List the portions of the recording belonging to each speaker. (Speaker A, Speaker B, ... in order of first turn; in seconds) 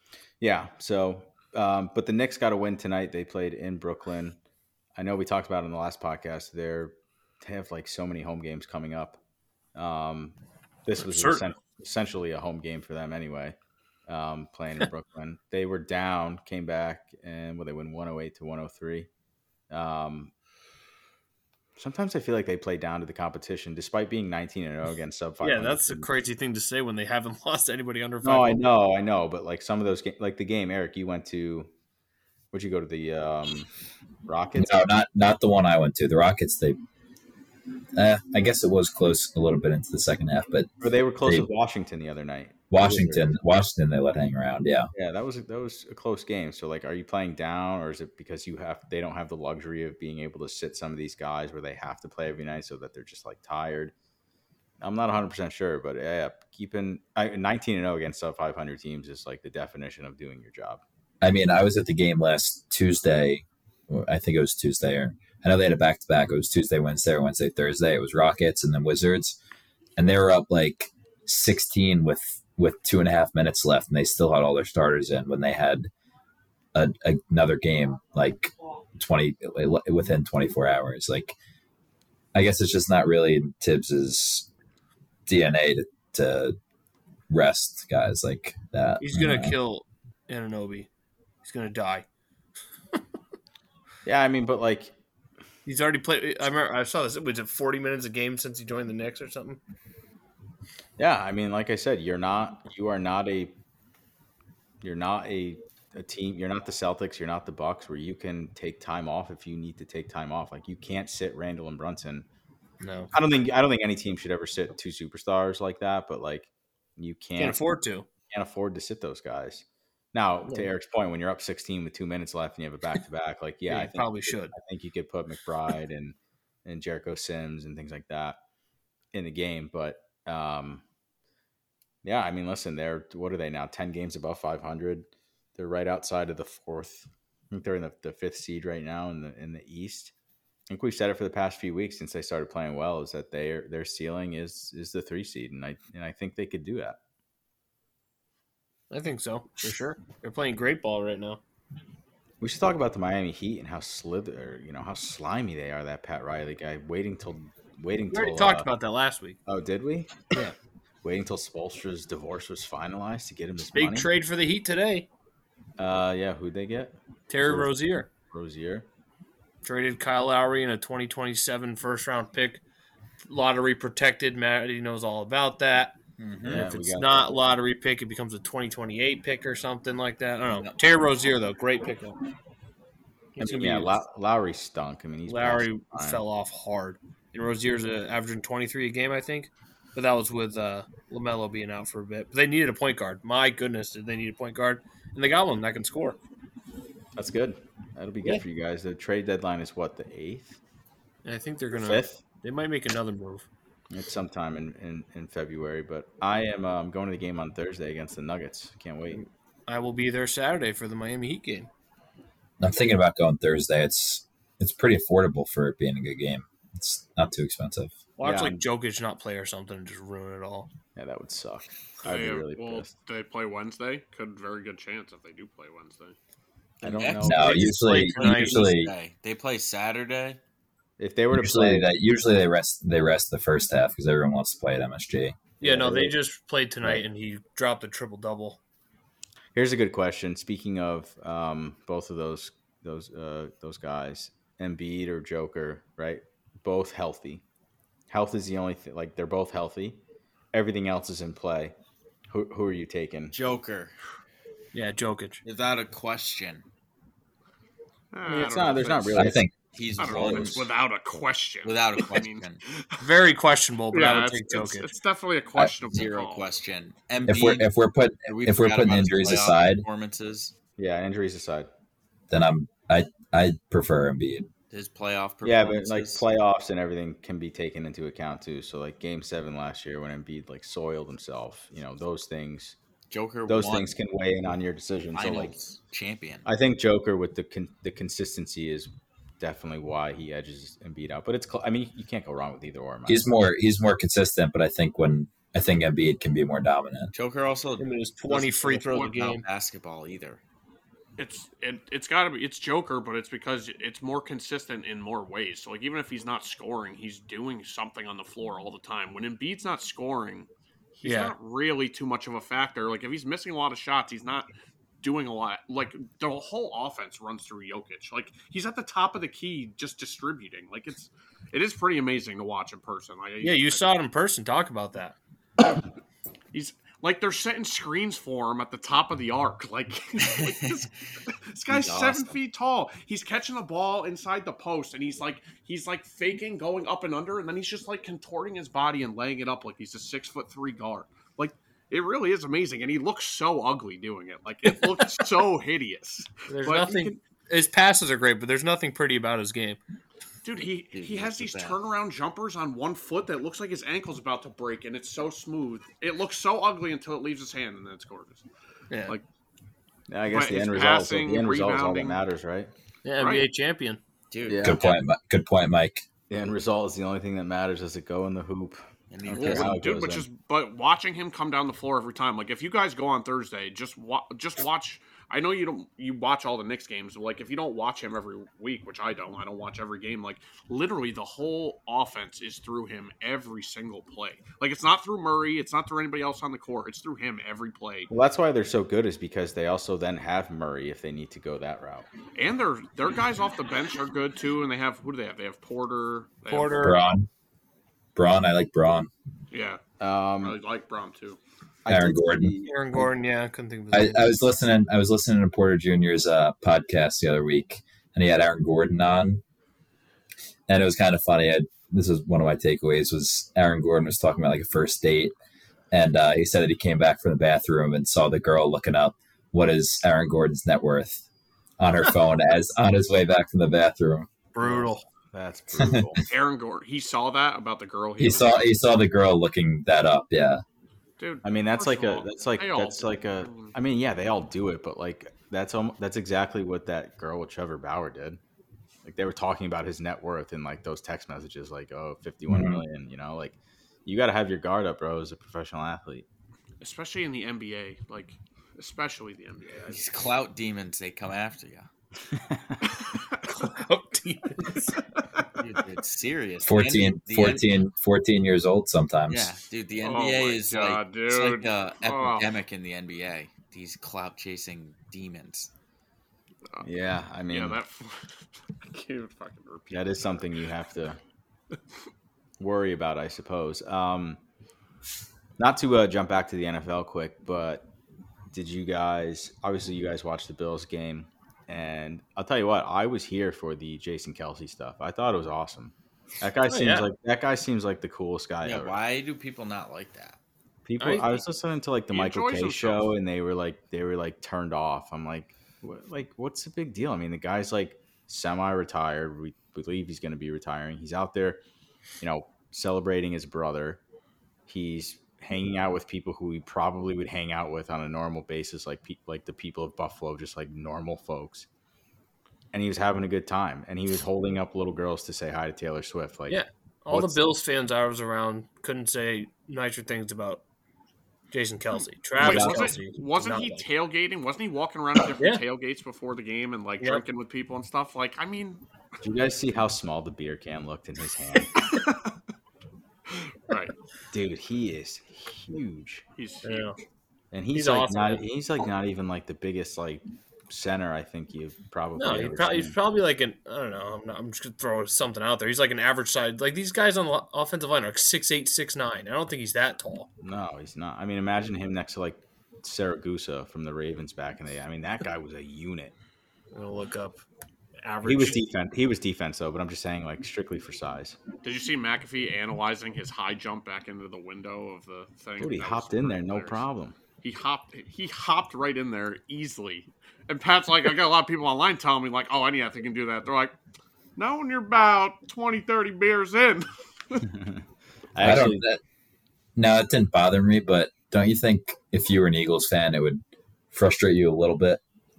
Speaker A: 0.4-4.4, 5.0-9.2, 9.8-13.6, 14.1-19.1, 19.7-20.3, 21.8-26.1, 28.2-31.7, 32.5-33.7, 34.3-34.9, 40.8-43.4, 44.9-53.9, 54.8-60.8, 94.0-94.9, 101.0-103.5, 104.8-112.3, 113.1-117.6, 118.3-128.4, 129.1-130.8, 132.0-140.1, 140.7-147.0, 152.4-158.7, 159.5-160.3, 161.0-164.1, 165.8-168.9, 176.5-177.4, 183.4-186.2, 197.2-200.6, 201.7-202.2, 203.9-209.2, 218.2-218.6, 221.0-222.9, 226.8-227.8, 231.0-231.9, 235.6-236.2, 239.6-247.4, 248.1-250.0, 250.5-251.8, 252.3-253.4, 258.2-259.5, 260.0-260.6, 270.8-271.7, 275.4-282.8, 283.5-285.6, 286.4-293.3, 360.1-362.7, 364.5-364.9, 366.3-370.3, 388.1-392.1, 400.0-400.6, 401.9-403.1, 424.6-426.2, 431.4-438.4, 439.1-446.3, 452.3-452.9, 466.8-467.8, 469.9-471.2, 472.6-474.4, 475.6-477.9, 478.5-489.0, 490.9-501.6, 502.2-504.0, 504.7-511.7, 512.7-517.6, 522.4-523.0, 529.2-531.8, 534.3-536.2, 537.5-543.0, 550.4-556.1, 558.2-561.4, 565.6-567.2, 577.5-577.8, 578.3-578.9
Speaker B: 11.0-11.5, 25.4-28.7, 89.0-90.9, 91.4-92.1, 95.7-99.6, 112.8-113.1, 117.4-118.1, 123.7-124.5, 148.9-151.4, 158.1-159.4, 163.7-165.1, 167.3-168.1, 169.6-172.6, 173.3-175.9, 176.5-182.2, 183.4-184.0, 185.3-196.2, 201.2-203.5, 209.1-211.7, 218.2-220.7, 227.4-228.7, 235.6-238.6, 254.7-255.4, 263.0-264.9, 297.8-299.4, 311.0-311.4, 323.4-325.2, 346.5-349.8, 358.9-359.2, 363.1-364.0, 396.5-397.0, 402.6-404.4, 424.5-425.0, 453.4-455.2, 486.7-487.1, 491.0-491.4, 516.5-520.6, 521.5-523.9, 536.6-537.0, 537.7-538.4, 542.2-550.3, 556.7-557.4, 558.0-558.6
Speaker C: 34.6-36.8, 38.0-41.5, 42.7-44.9, 61.2-69.4, 70.0-75.9, 76.7-81.4, 82.3-84.5, 85.3-86.6, 87.3-89.6, 212.6-218.0, 227.2-228.9, 231.3-235.4, 259.1-259.5, 267.3-269.9, 272.3-274.5, 293.1-297.1, 364.6-366.1, 396.8-397.3, 398.1-399.1, 401.9-402.5, 403.9-409.4, 410.7-415.3, 415.9-421.2, 421.8-424.3, 425.8-426.2, 428.2-430.6, 442.5-442.8, 456.6-459.5, 578.4-579.0, 579.8-585.0
Speaker D: 176.2-176.7, 226.8-230.4, 253.3-253.9, 255.4-256.6, 259.7-260.7, 261.6-262.6, 265.9-267.7, 268.3-270.5, 274.7-276.3, 283.1-283.9, 285.1-286.5, 297.1-300.4, 330.2-330.8, 331.7-332.4, 350.9-351.8, 364.3-365.0, 369.1-369.7, 449.9-451.9, 455.6-457.7, 459.3-465.7, 488.6-490.4
Speaker E: 222.0-226.2, 258.1-259.3, 260.0-263.1, 263.9-266.5, 301.2-314.5, 315.0-323.9, 326.5-347.2, 350.4-358.4, 360.3-362.2, 363.2-363.5, 369.3-388.1, 392.4-397.0, 399.5-399.8, 400.4-401.4, 426.3-428.7, 431.2-433.7, 446.8-450.2, 460.0-462.5, 467.5-470.2, 492.1-493.1, 522.4-528.8, 531.8-532.2, 533.3-533.9, 536.4-536.9, 561.6-566.9, 567.4-573.8, 574.4-577.5